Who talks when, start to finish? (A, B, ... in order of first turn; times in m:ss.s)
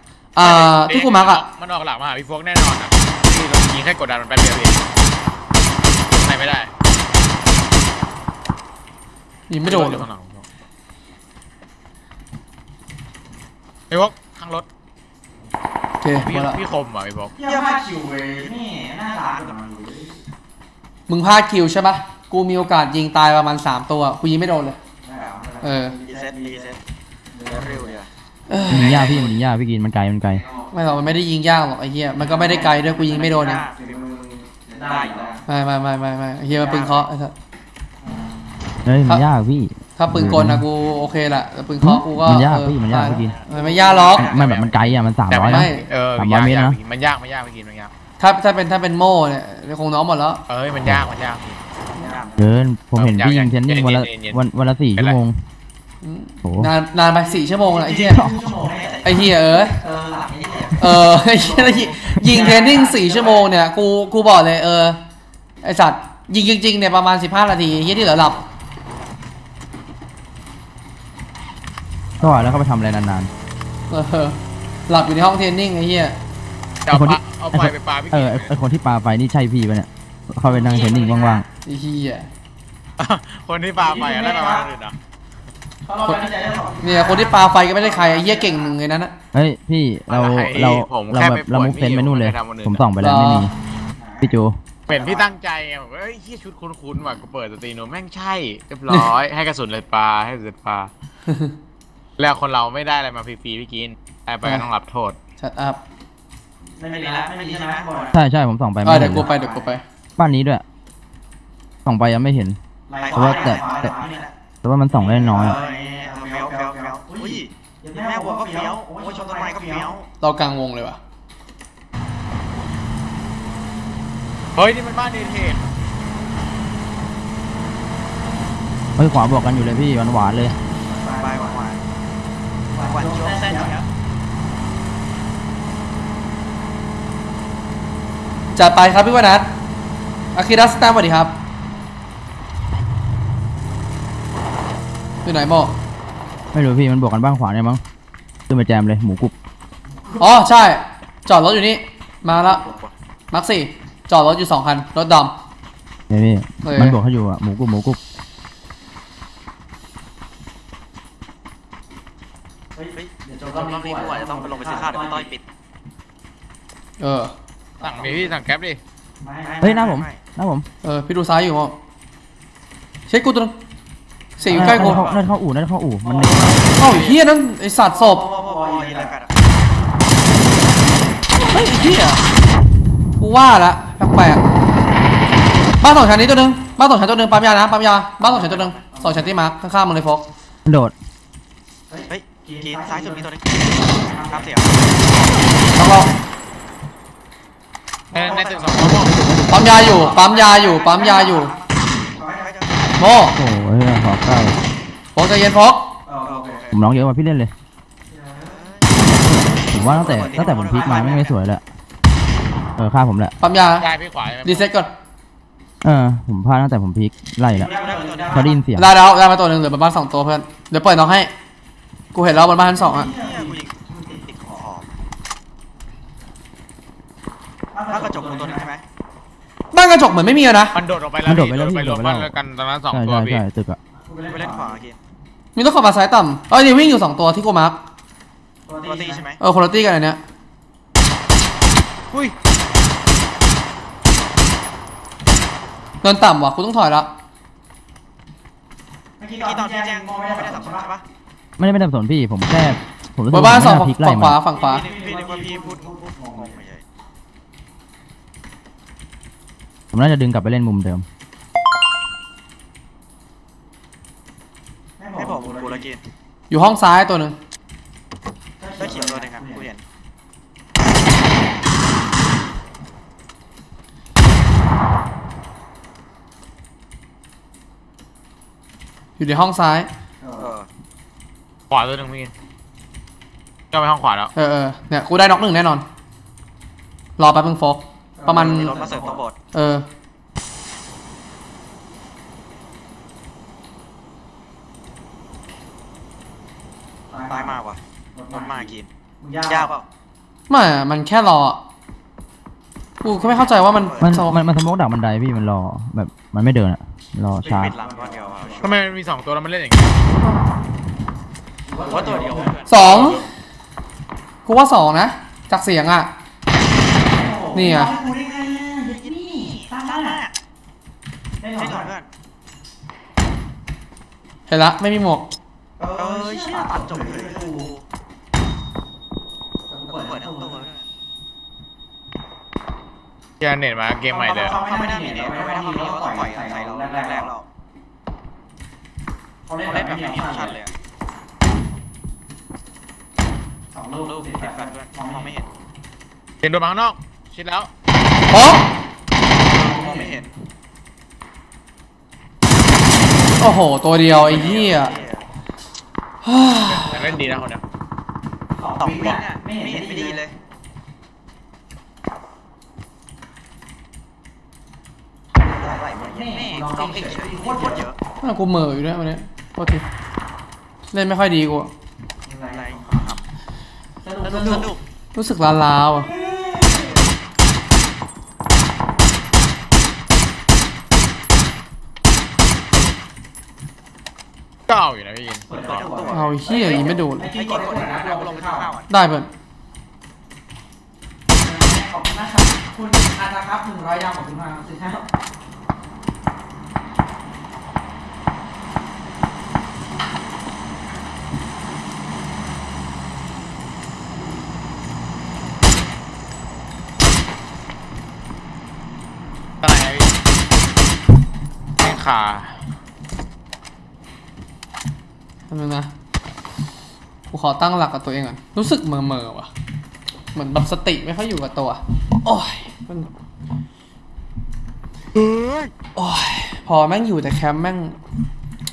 0:00.3-0:01.4 A
0:00.4-0:04.8 B
0:06.1-0:06.7 B
0:09.5-0:10.0 A
0:09.6-0:10.4 B
0:13.9-0:14.6 B
0:16.0-0:16.6 A
0:16.2-0:17.3 B
0:17.4-0:20.2 C
0:17.4-0:17.8 D
0:21.1-0:24.8 A
0:25.0-0:26.7 C
0:25.2-0:25.4 D
0:25.6-0:26.0 A
0:25.9-0:26.8 D
0:27.3-0:28.0 C
0:27.4-0:28.1 D
0:28.5-0:29.1 A
0:28.7-0:30.4 E
0:28.7-0:29.3 C
0:30.3-0:30.9 C
0:30.7-0:33.6 A
0:32.2-0:35.4 C
0:32.9-0:34.0 D
0:34.8-0:35.4 D
0:35.5-0:37.3 A
0:36.5-0:37.0 C
0:38.0-0:38.6 C
0:38.8-0:40.6 E
0:40.0-0:44.3 A
0:41.8-0:43.3 E
0:43.5-0:44.2 C
0:44.1-0:46.8 E
0:44.1-0:47.9 B
0:45.5-0:45.8 A
0:48.2-0:50.4 A
0:50.5-0:51.5 B
0:52.0-0:52.5 C
0:52.4-0:55.4 E
0:52.9-0:54.4 B
0:56.0-0:58.3 A
0:56.4-0:56.7 E
0:57.3-1:03.4 C
0:59.0-0:59.8 A
1:00.8-1:05.0 A
1:05.6-1:08.4 A
1:12.2-1:13.3 E
1:13.9-1:16.2 A
1:16.8-1:18.5 B
1:16.9-1:21.4 E
1:20.4-1:21.4 C
1:21.6-1:22.3 A
1:23.0-1:25.0 B
1:23.7-1:24.7 C
1:25.8-1:28.7 C
1:26.8-1:29.1 A
1:29.3-1:33.5 E
1:30.1-1:32.8 B
1:33.0-1:33.5 A
1:34.0-1:34.3 C
1:34.2-1:34.6 E
1:34.9-1:40.9 B
1:34.9-1:35.2 C
1:41.3-1:41.5 A
1:42.2-1:45.2 B
1:45.4-1:45.8 A
1:46.8-1:48.2 C
1:46.9-1:48.1 D
1:48.1-1:49.3 E
1:48.8-1:49.8 A
1:48.9-1:49.7 C
1:50.2-1:50.6 E
1:51.8-1:52.6 E
1:52.9-1:54.3 C
1:53.0-1:53.9 D
1:53.1-1:53.9 E
1:54.6-1:55.6 E
1:54.9-1:59.9 C
1:55.2-2:00.0 D
2:00.2-2:01.0 A
2:04.5-2:05.6 B
2:09.0-2:10.6 E
2:10.8-2:11.7 C
2:11.2-2:11.8 D
2:12.7-2:13.8 C
2:12.8-2:13.8 D
2:18.5-2:19.5 A
2:20.3-2:21.3 A
2:25.2-2:25.7 A
2:26.5-2:27.8 E
2:28.5-2:29.3 E
2:30.2-2:32.6 A
2:32.4-2:32.9 D
2:33.3-2:35.3 A
2:36.1-2:38.0 E
2:36.6-2:37.0 A
2:42.7-2:45.3 C
2:42.9-2:45.4 D
2:47.0-2:47.3 A
2:47.8-2:48.4 C
2:47.8-2:48.8 B
2:49.2-2:49.9 C
2:49.5-2:50.2 D
2:49.6-2:50.6 E
2:50.8-2:51.7 A
2:53.1-2:53.5 A
2:54.4-2:55.1 A
2:54.5-2:56.6 E
2:54.7-2:55.2 D
2:56.0-2:56.6 C
2:56.8-2:58.2 A
2:56.8-2:57.2 B
2:57.9-2:59.1 C
2:58.2-2:59.4 D
3:01.4-3:02.2 A
3:03.2-3:04.4 A
3:05.8-3:10.2 A
3:08.3-3:09.3 C
3:10.6-3:10.9 E
3:11.9-3:14.5 C
3:12.1-3:14.8 D
3:15.8-3:16.1 A
3:18.1-3:19.2 B
3:18.2-3:18.7 D
3:18.2-3:18.7 C
3:18.8-3:19.8 E
3:19.5-3:21.5 A
3:19.8-3:21.5 C
3:19.9-3:21.7 D
3:22.1-3:22.9 C
3:22.3-3:23.0 D
3:23.0-3:23.4 A
3:23.3-3:24.6 E
3:25.1-3:25.8 A
3:26.0-3:26.7 C
3:26.2-3:26.7 D
3:26.7-3:27.5 E
3:28.1-3:28.7 C
3:28.5-3:28.9 D
3:29.3-3:31.6 E
3:29.8-3:31.3 D
3:29.8-3:31.2 C
3:32.8-3:33.3 E
3:33.4-3:33.9 A
3:33.8-3:34.7 B
3:34.4-3:34.9 A
3:35.8-3:37.7 E
3:37.5-3:38.5 C
3:37.6-3:38.6 D
3:38.3-3:38.9 E
3:38.7-3:41.3 A
3:42.1-3:43.1 A
3:42.8-3:44.7 C
3:43.1-3:44.8 D
3:47.7-3:48.7 C
3:47.9-3:48.8 D
3:49.7-3:50.8 A
3:50.7-3:53.4 B
3:51.2-3:52.3 E
3:52.9-3:53.8 E
3:54.0-3:54.8 C
3:54.3-3:55.0 D
3:55.6-3:57.8 A
3:58.6-3:59.3 C
3:58.8-3:59.4 D
3:59.4-4:00.2 A
4:06.0-4:07.1 A
4:09.2-4:10.9 C
4:09.4-4:11.0 D
4:11.6-4:14.4 E
4:13.3-4:14.9 A
4:14.5-4:16.6 C
4:14.7-4:16.8 D
4:19.9-4:21.0 E
4:25.0-4:25.8 C
4:25.2-4:26.0 D
4:26.5-4:27.4 A
4:28.6-4:29.7 C
4:28.8-4:29.8 D
4:39.2-4:39.9 A
4:40.2-4:40.5 C
4:40.4-4:40.7 D
4:41.7-4:42.3 B
4:43.7-4:44.3 B
4:44.3-4:45.8 A
4:47.2-4:48.8 A
4:48.2-4:49.2 C
4:48.3-4:49.3 D
4:49.5-4:49.9 A
4:57.1-4:57.6 C
4:57.3-4:58.9 D
4:58.1-4:59.7 C
4:59.4-4:59.8 D
5:00.5-5:01.6 A
5:03.0-5:04.4 A
5:03.2-5:04.2 D
5:04.0-5:07.7 E
5:07.4-5:08.8 C
5:07.5-5:08.8 D
5:08.6-5:09.9 B
5:11.7-5:12.6 C
5:11.8-5:12.7 D
5:12.7-5:13.2 A
5:12.7-5:13.2 B
5:14.4-5:16.1 A
5:17.0-5:20.2 C
5:17.5-5:17.9 A
5:19.0-5:20.3 D
5:21.4-5:21.9 C
5:21.6-5:22.1 D
5:24.5-5:25.2 A
5:25.8-5:27.7 C
5:26.0-5:27.8 D
5:29.7-5:30.6 C
5:29.9-5:30.8 D
5:33.4-5:34.6 B
5:34.1-5:37.3 C
5:34.4-5:37.4 D
5:39.4-5:40.6 C
5:39.6-5:40.7 D
5:43.7-5:45.3 C
5:44.0-5:45.5 D
5:46.4-5:47.7 B
5:48.3-5:48.6 A
5:49.4-5:50.3 C
5:49.4-5:50.3 D
5:53.4-5:54.9 A
5:54.1-5:55.2 D
5:54.3-5:55.0 C
5:56.2-5:57.0 A
5:56.7-5:57.6 B
5:56.9-5:57.4 C
5:58.6-6:00.2 C
5:58.8-6:00.3 D
6:05.4-6:07.9 C
6:05.4-6:08.0 D
6:08.2-6:09.8 A
6:10.9-6:11.7 A
6:12.2-6:13.0 C
6:12.5-6:13.2 D
6:14.0-6:14.7 C
6:14.2-6:14.8 D
6:15.1-6:16.1 A
6:15.9-6:17.0 C
6:24.7-6:25.9 B
6:25.5-6:28.7 C
6:25.6-6:28.8 D
6:26.1-6:27.3 A
6:28.9-6:29.3 A
6:31.3-6:35.0 C
6:49.6-6:50.1 B
6:51.8-6:52.6 B
6:55.5-6:55.9 A
6:57.3-6:59.5 A
7:00.3-7:03.1 A
7:05.1-7:05.7 B
7:06.0-7:08.0 A